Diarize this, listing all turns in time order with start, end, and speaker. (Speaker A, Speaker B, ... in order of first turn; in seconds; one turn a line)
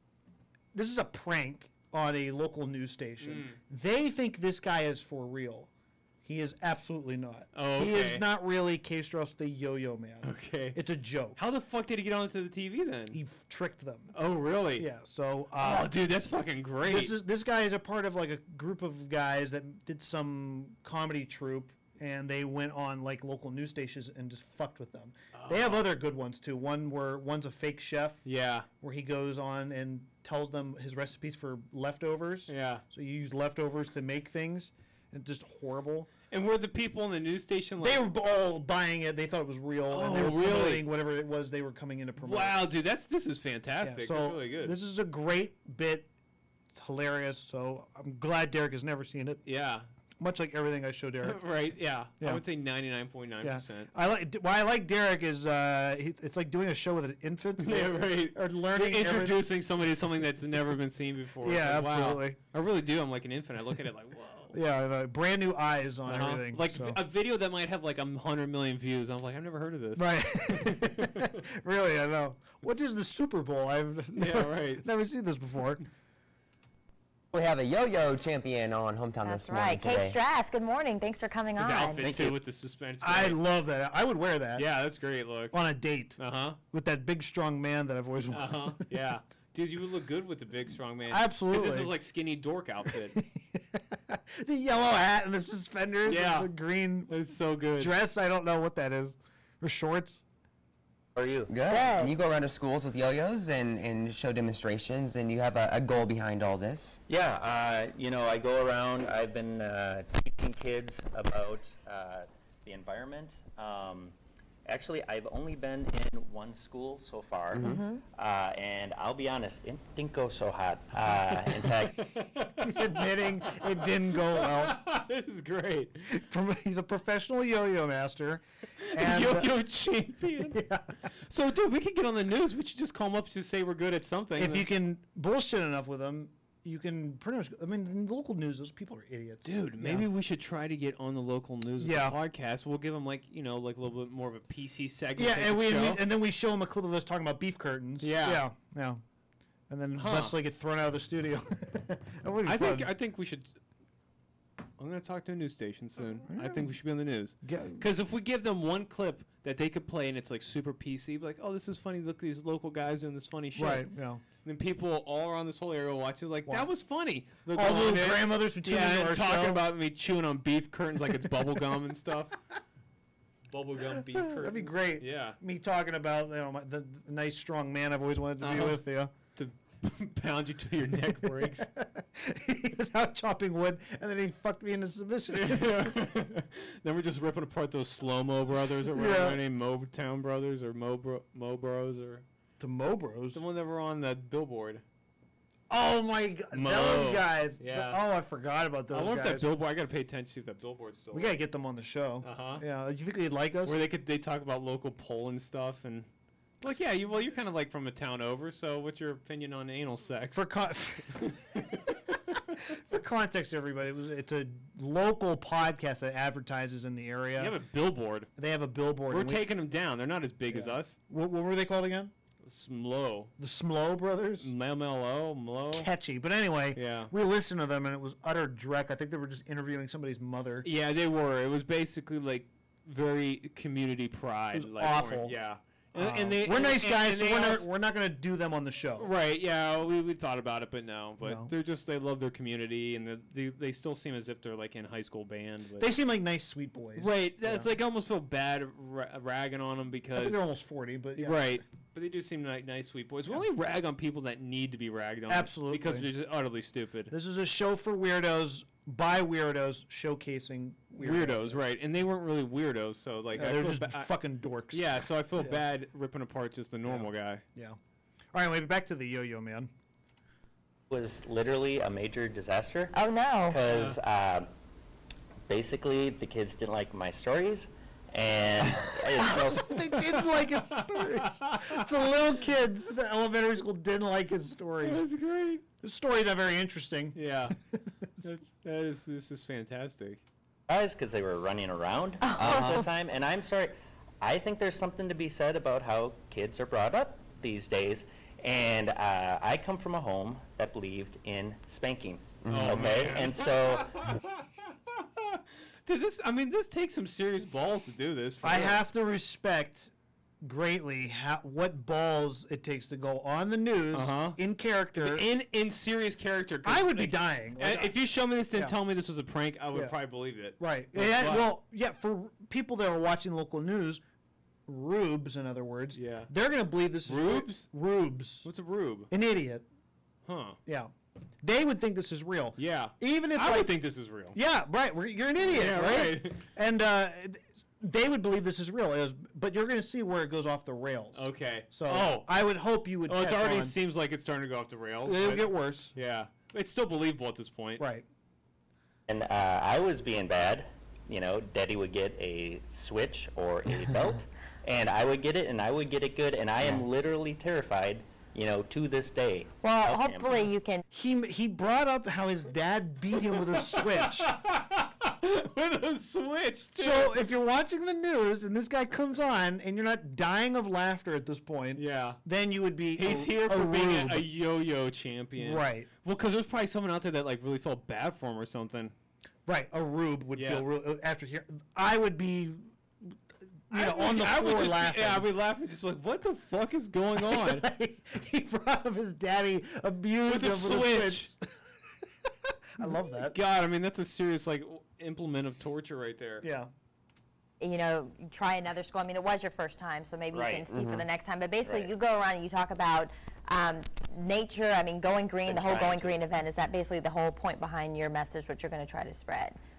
Speaker A: 0.7-5.7
Speaker B: 3.2-3.6
Speaker A: 6.2-11.4
Speaker B: 7.5-8.2
Speaker B: 10.2-10.8
Speaker B: 11.4-13.2
Speaker A: 13.1-14.1
Speaker B: 14.1-14.9
Speaker A: 14.8-15.9
Speaker B: 15.6-17.2
Speaker A: 16.8-28.3
Speaker B: 25.4-25.8
Speaker B: 28.2-28.7
Speaker A: 28.8-36.1
Speaker B: 32.5-32.8
Speaker B: 36.3-38.1
Speaker A: 37.8-42.6
Speaker B: 39.9-40.9
Speaker B: 42.2-44.8
Speaker A: 43.8-46.1
Speaker A: 46.7-49.4
Speaker B: 49.4-49.9
Speaker A: 50.2-51.5
Speaker B: 51.2-53.9
Speaker A: 53.4-59.5
Speaker B: 57.6-64.6
Speaker A: 61.4-62.4
Speaker A: 64.5-67.0
Speaker B: 66.1-71.4
Speaker A: 70.0-75.8
Speaker B: 74.2-74.8
Speaker C: 77.3-80.2
Speaker D: 79.2-82.1
Speaker B: 81.6-83.4
Speaker E: 82.0-82.4
Speaker A: 83.0-84.7
Speaker B: 84.5-85.6
Speaker A: 85.5-86.2
Speaker B: 86.2-86.6
Speaker A: 86.7-88.9
Speaker B: 88.3-93.2
Speaker A: 91.1-92.0
Speaker A: 93.0-97.1
Speaker B: 96.0-96.5
Speaker B: 97.1-98.0
Speaker A: 97.8-100.2
Speaker E: 101.2-101.5
Speaker C: 101.5-107.0
Speaker D: 101.7-102.2
Speaker E: 107.1-114.1
Speaker E: 114.7-122.1
Speaker C: 117.5-117.8
Speaker D: 117.6-118.0
Speaker B: 121.3-126.1
Speaker A: 122.6-124.8
Speaker A: 126.1-129.5
Speaker B: 128.9-130.6
Speaker A: 130.4-131.0
Speaker B: 131.2-134.7
Speaker A: 134.4-140.1
Speaker B: 139.4-146.1
Speaker A: 141.8-142.2
Speaker A: 145.2-149.0
Speaker B: 148.0-148.4
Speaker A: 149.7-152.9
Speaker B: 149.9-150.4
Speaker B: 152.4-153.6
Speaker B: 154.8-163.9
Speaker A: 156.3-156.7
Speaker A: 157.4-157.8
Speaker A: 163.6-164.2
Speaker B: 164.4-172.4
Speaker A: 166.5-166.7
Speaker A: 167.5-169.7
Speaker B: 173.5-175.4
Speaker A: 173.9-179.1
Speaker B: 178.4-178.8
Speaker B: 179.3-181.7
Speaker A: 181.3-185.8
Speaker B: 185.3-192.2
Speaker A: 188.9-189.4
Speaker A: 192.6-193.4
Speaker B: 193.3-194.8
Speaker A: 195.7-199.5
Speaker B: 196.5-198.0
Speaker B: 198.9-201.4
Speaker A: 201.1-203.8
Speaker B: 202.2-202.6
Speaker B: 203.6-206.1
Speaker B: 206.6-210.5
Speaker A: 210.3-217.6
Speaker B: 211.2-211.6
Speaker B: 217.4-218.3
Speaker A: 218.4-219.5
Speaker B: 219.1-221.0
Speaker A: 220.5-222.1
Speaker B: 222.4-223.3
Speaker A: 223.4-224.5
Speaker B: 224.4-225.9
Speaker A: 225.7-230.7
Speaker B: 226.7-227.1
Speaker B: 230.6-237.7
Speaker A: 234.5-235.4
Speaker A: 235.9-239.1
Speaker B: 239.0-245.9
Speaker A: 241.2-241.5
Speaker A: 245.8-247.7
Speaker B: 247.0-250.4
Speaker A: 250.1-251.6
Speaker B: 251.2-257.1
Speaker A: 255.3-256.1
Speaker A: 257.1-261.6
Speaker B: 261.0-264.1
Speaker A: 263.3-265.6
Speaker B: 264.7-267.4
Speaker A: 266.9-267.8
Speaker A: 268.3-269.7
Speaker E: 270.9-274.5
Speaker D: 272.9-273.6
Speaker B: 273.7-274.0
Speaker E: 275.5-280.0
Speaker A: 279.5-285.1
Speaker B: 280.0-281.9
Speaker B: 284.8-285.6
Speaker A: 285.8-288.3
Speaker B: 287.1-287.6
Speaker B: 288.2-290.2
Speaker E: 290.7-304.0
Speaker D: 292.2-292.9
Speaker C: 292.4-292.8
Speaker C: 302.4-303.1
Speaker B: 302.5-308.8
Speaker A: 308.4-315.3
Speaker B: 313.9-314.4
Speaker B: 314.9-321.5
Speaker A: 316.6-318.0
Speaker A: 320.6-324.0
Speaker A: 324.7-328.5
Speaker B: 325.9-326.3
Speaker B: 327.1-327.7
Speaker B: 328.4-329.1
Speaker A: 329.1-329.6
Speaker B: 330.3-330.6
Speaker A: 330.7-333.7
Speaker B: 332.6-334.4
Speaker A: 334.3-343.8
Speaker B: 335.4-336.5
Speaker B: 341.1-342.3
Speaker B: 343.1-347.8
Speaker A: 345.1-345.9
Speaker A: 347.8-348.1
Speaker E: 349.1-360.5
Speaker D: 359.6-360.8
Speaker A: 360.9-364.3
Speaker B: 363.5-367.2
Speaker A: 366.8-374.3
Speaker B: 371.8-372.2
Speaker B: 372.9-378.9
Speaker A: 375.4-375.9
Speaker A: 379.5-385.3
Speaker B: 380.3-380.6
Speaker B: 383.7-387.7
Speaker A: 387.2-391.4
Speaker B: 390.3-391.3
Speaker A: 392.3-393.4
Speaker B: 393.3-396.4
Speaker A: 396.4-396.7
Speaker D: 397.6-409.6
Speaker E: 400.3-400.7
Speaker C: 400.7-401.1
Speaker E: 401.6-401.9
Speaker E: 405.4-406.2